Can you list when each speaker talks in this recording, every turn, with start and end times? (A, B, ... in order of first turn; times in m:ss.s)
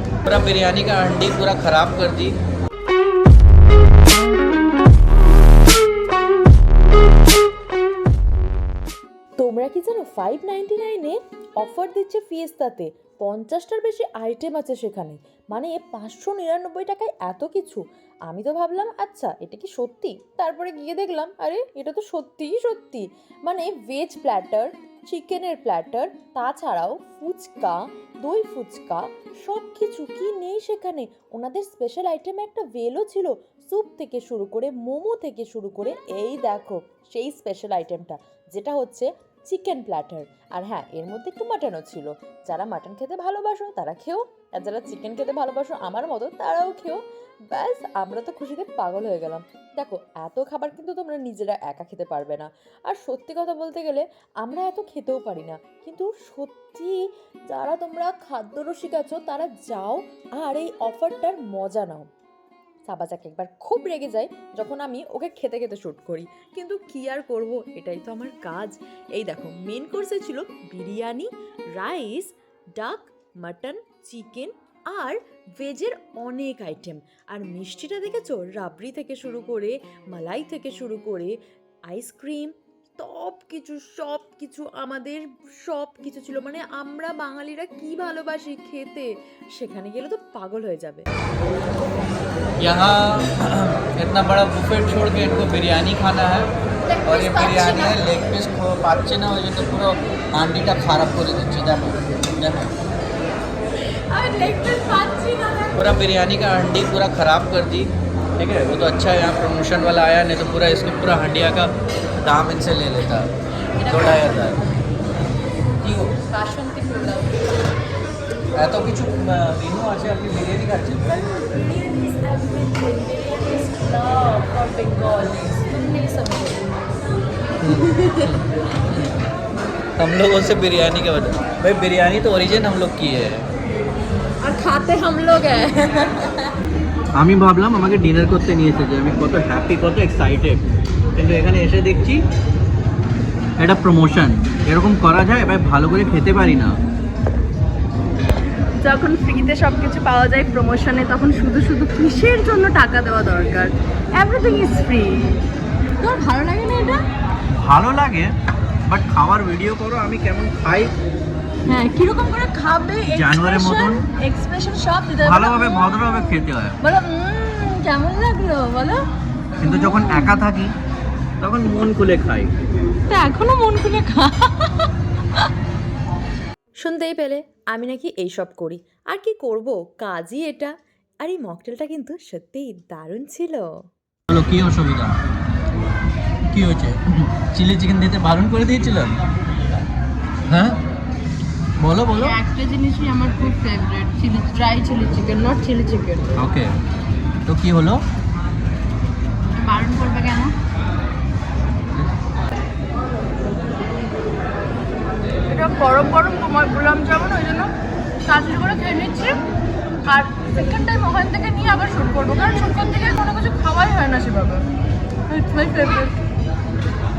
0:00.2-0:02.4 A
0:09.4-1:02.0 B
1:02.9-1:21.4 B
1:21.9-1:31.1 B
1:32.6-1:36.5 A
1:36.9-1:38.0 C
1:37.0-1:42.7 A
1:44.2-1:45.7 C
1:45.7-1:54.6 A
1:55.8-1:56.2 A
1:56.3-1:57.5 B
1:58.6-2:01.2 A
2:01.2-2:06.7 B
2:07.6-2:09.2 A
2:10.0-2:13.5 A
2:14.4-2:16.3 B
2:17.2-2:20.6 A
2:21.2-2:22.2 A
2:23.6-2:26.8 A
2:28.9-2:30.5 B
2:28.9-2:35.4 C
2:32.9-2:33.3 B
2:36.0-2:37.0 C
2:37.6-2:38.3 A
2:38.8-2:40.9 A
2:41.7-2:49.0 C
2:43.0-2:44.0 A
2:45.2-2:46.8 A
2:49.6-2:50.7 A
2:49.7-2:50.3 C
2:51.4-2:52.5 A
2:53.1-2:54.9 C
2:56.8-3:03.7 B
3:04.3-3:05.2 A
3:06.5-3:09.2 A
3:10.5-3:10.8 A
3:11.8-3:12.4 A
3:12.1-3:16.4 C
3:16.4-3:16.7 A
3:17.4-3:18.0 A
3:19.5-3:20.6 C
3:25.5-3:27.7 C
3:28.2-3:29.4 C
3:30.0-3:34.6 C
3:35.3-3:36.2 C